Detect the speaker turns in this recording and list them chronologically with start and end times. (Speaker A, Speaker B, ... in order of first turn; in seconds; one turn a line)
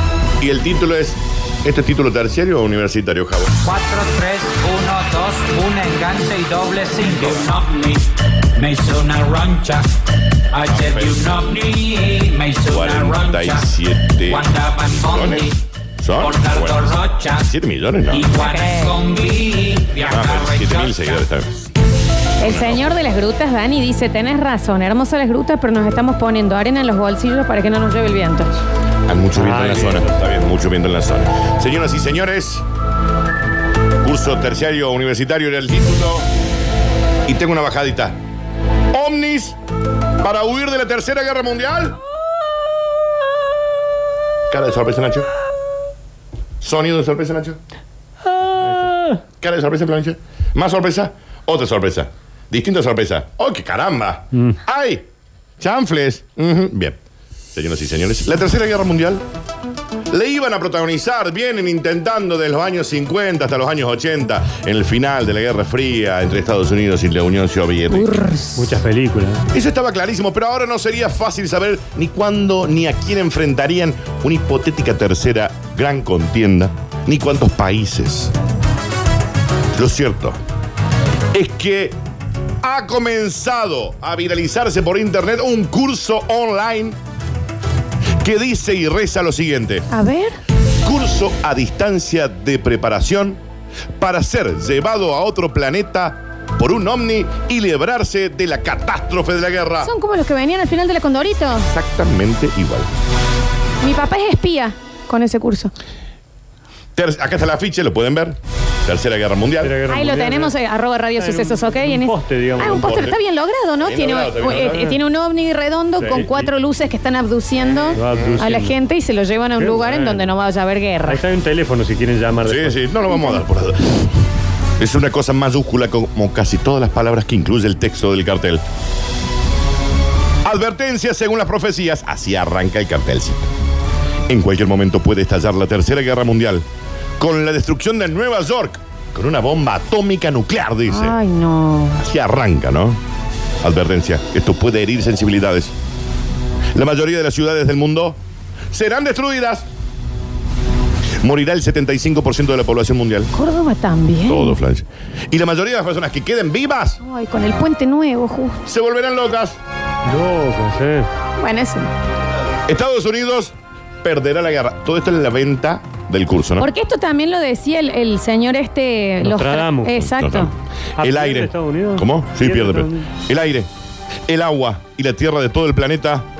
Speaker A: 0.4-3.6
Speaker B: 3.6-10.0
Speaker A: 7.2-7.4
Speaker B: 10.5-15.6
Speaker A: 10.6-11.4
Speaker A: 12.7-18.3
Speaker B: 16.1-17.5
Speaker B: 18.1-21.2
Speaker C: 18.3-19.0
Speaker A: 20.0-21.6
Speaker C: 22.4-28.6
Speaker A: 22.4-23.0
Speaker A: 29.1-32.6
Speaker D: 29.3-30.2
Speaker A: 34.0-36.3
Speaker A: 37.3-38.2
Speaker A: 38.9-39.5
Speaker A: 40.2-42.0
Speaker A: 44.5-45.3
Speaker A: 46.6-47.6
Speaker D: 48.3-49.2
Speaker A: 49.4-55.0
Speaker A: 55.6-57.0
Speaker A: 57.5-59.2
Speaker A: 60.1-68.2
Speaker C: 67.9-68.8
Speaker D: 68.6-69.4
Speaker A: 69.5-78.3
Speaker A: 79.7-80.4
Speaker A: 81.3-82.0
Speaker A: 82.6-87.0
Speaker A: 88.2-89.8
Speaker C: 89.9-90.4
Speaker A: 90.8-93.4
Speaker A: 94.0-99.9
Speaker C: 99.8-101.7
Speaker A: 101.7-102.9
Speaker C: 103.8-105.7
Speaker A: 107.0-109.8
Speaker D: 109.6-110.5
Speaker C: 109.9-121.2
Speaker D: 111.2-113.1
Speaker A: 112.6-113.2
Speaker A: 113.8-114.9
Speaker D: 114.5-115.0
Speaker D: 116.0-116.3
Speaker D: 117.9-118.8
Speaker A: 118.1-118.4
Speaker D: 119.6-120.3
Speaker D: 121.1-122.8
Speaker A: 122.4-124.0
Speaker C: 123.1-123.4
Speaker A: 124.8-128.6
Speaker A: 130.4-133.5
Speaker A: 134.3-136.7
Speaker A: 137.2-141.2
Speaker C: 140.9-142.0
Speaker A: 141.9-143.0
Speaker A: 143.6-145.7
Speaker A: 146.7-148.2
Speaker A: 148.7-149.7
Speaker A: 151.2-153.3
Speaker C: 153.3-154.6
Speaker A: 154.2-157.0
Speaker C: 157.0-158.6
Speaker A: 158.7-159.6
Speaker D: 160.0-161.1
Speaker C: 161.4-161.9
Speaker A: 162.7-166.7
Speaker C: 166.6-170.5
Speaker D: 169.2-170.1
Speaker A: 170.1-173.7
Speaker D: 171.0-173.1
Speaker A: 174.3-176.2